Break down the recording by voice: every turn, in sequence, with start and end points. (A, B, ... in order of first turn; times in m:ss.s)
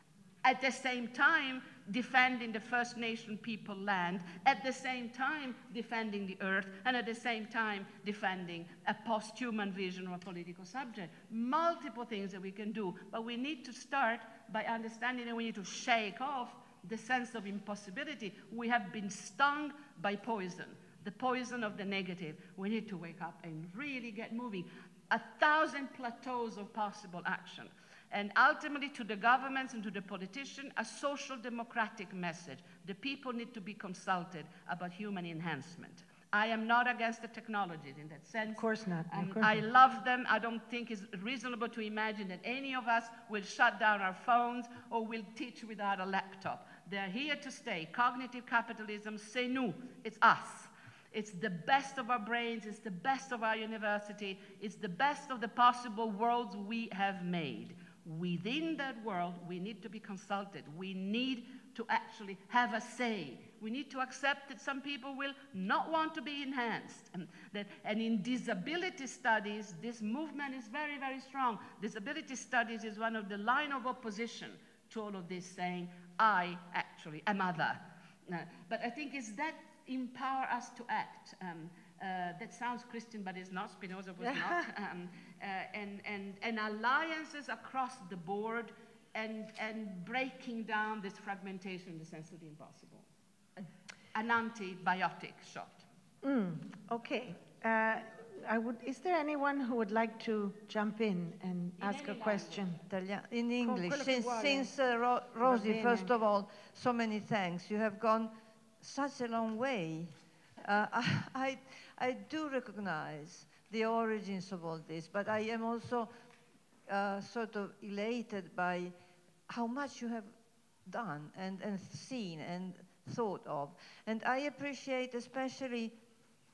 0:00.4-1:33.1 A
0:38.6-0:39.6 B
1:24.2-1:24.6 B
1:34.2-1:35.9 A
1:36.2-1:42.8 B
1:41.8-1:42.7 A
1:42.9-1:56.1 C
1:43.6-1:44.7 B
1:45.4-1:46.1 B
1:56.9-1:58.9 C
1:59.5-2:06.0 C